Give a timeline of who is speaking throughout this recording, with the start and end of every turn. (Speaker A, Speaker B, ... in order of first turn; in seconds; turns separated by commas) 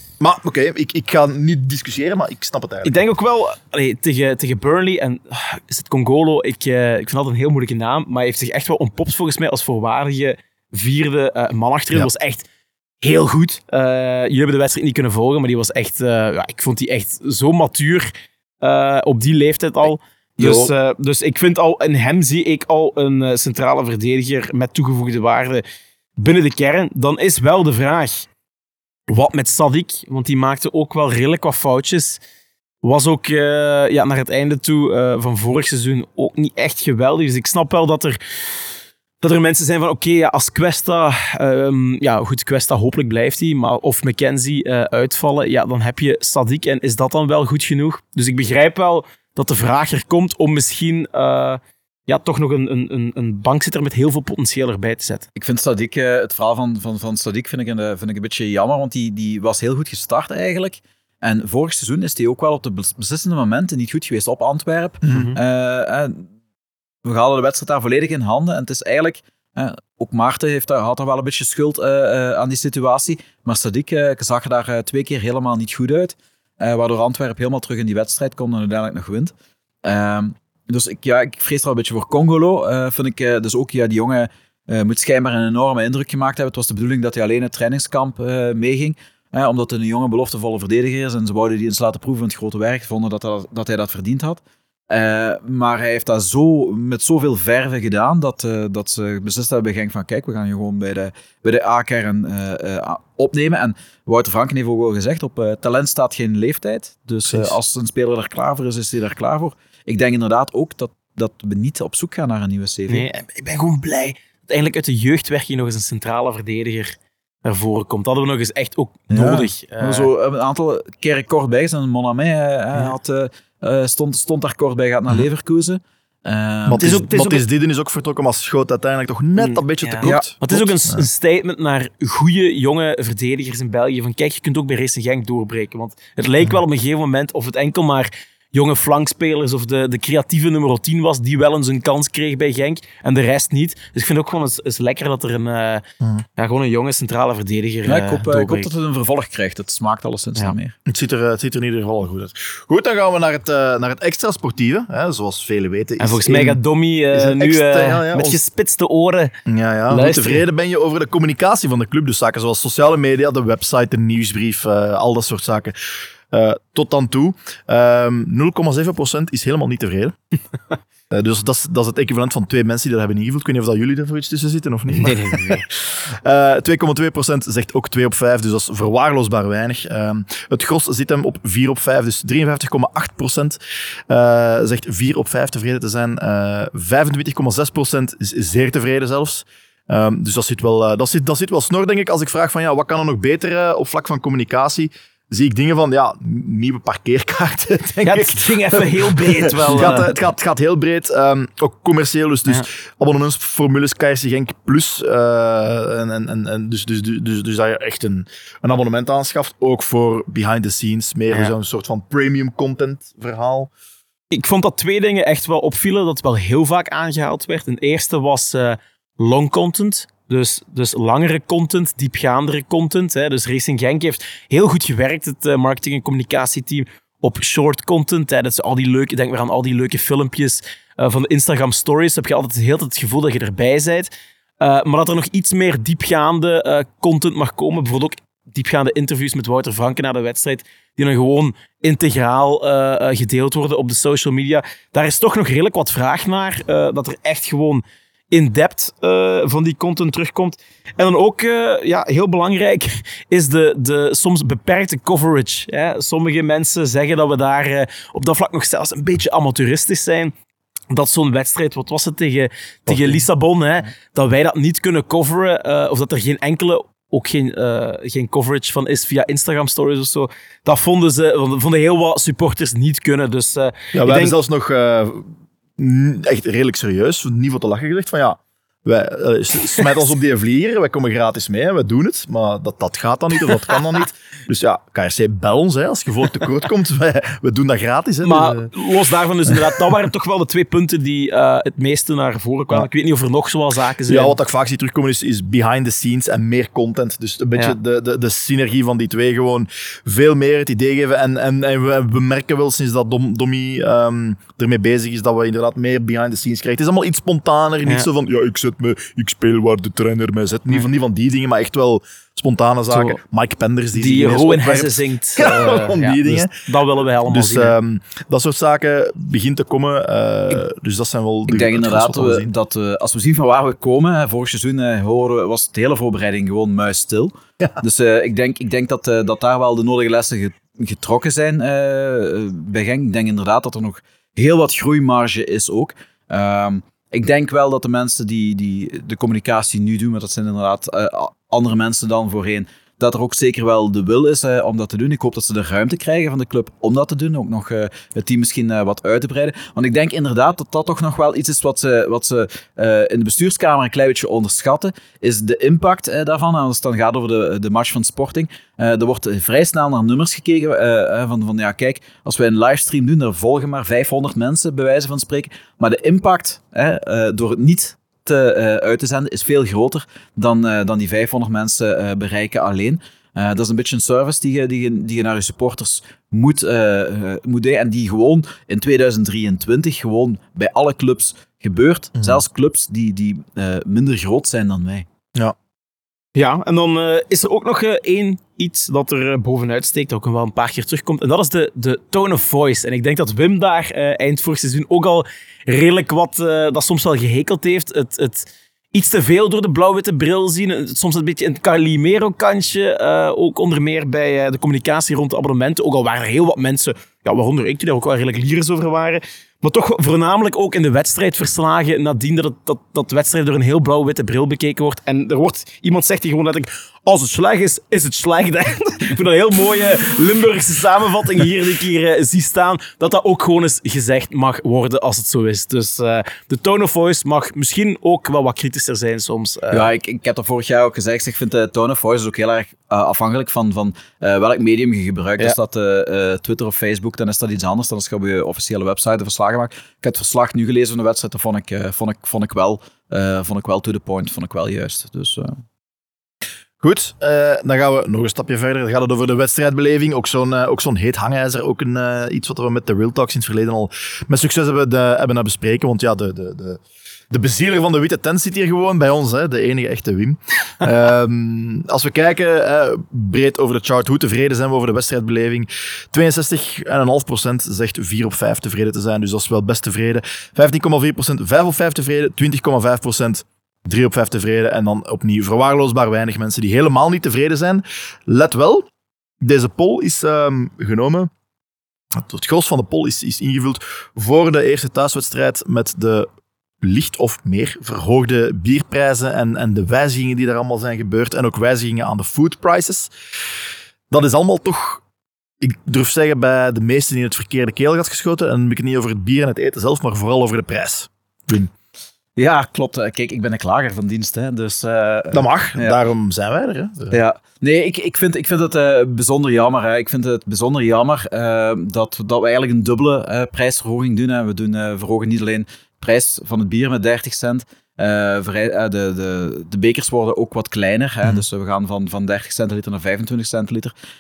Speaker A: 0.2-3.0, Speaker B: 2.8-12.4, Speaker B: 13.0-18.1, Speaker B: 18.6-25.6, Speaker A: 20.4-20.7, Speaker B: 26.2-28.3, Speaker B: 29.1-32.2, Speaker B: 32.8-38.2, Speaker B: 39.2-55.2, Speaker C: 55.4-66.2, Speaker A: 65.0-65.3, Speaker B: 65.1-65.4, Speaker C: 67.0-79.3, Speaker C: 79.8-113.1, Speaker A: 107.3-107.5, Speaker B: 112.9-120.1, Speaker C: 119.1-127.0, Speaker A: 126.7-131.1, Speaker B: 126.7-127.4, Speaker B: 129.4-145.8, Speaker B: 146.4-148.7, Speaker C: 147.8-150.7, Speaker A: 150.9-156.6, Speaker B: 156.0-159.3, Speaker A: 157.1-158.4, Speaker A: 159.4-170.2, Speaker B: 159.9-160.4, Speaker A: 171.1-213.7, Speaker B: 174.9-175.6, Speaker B: 198.0-200.1, Speaker B: 214.3-260.3, Speaker B: 260.9-274.4, Speaker A: 262.9-263.2, Speaker A: 273.9-288.7, Speaker B: 288.2-294.4, Speaker A: 289.5-289.8, Speaker A: 294.1-316.5, Speaker B: 312.9-313.2, Speaker B: 313.9-317.8, Speaker A: 317.3-322.5, Speaker C: 321.5-385.1, Speaker B: 386.4-429.9, Speaker C: 429.7-445.6, Speaker A: 446.8-478.9, Speaker A: 479.4-481.3, Speaker A: 482.1-486.3, Speaker A: 486.8-493.1, Speaker A: 494.1-495.0, Speaker A: 495.6-501.7, Speaker C: 502.4-506.0, Speaker A: 505.3-507.2, Speaker C: 507.1-523.9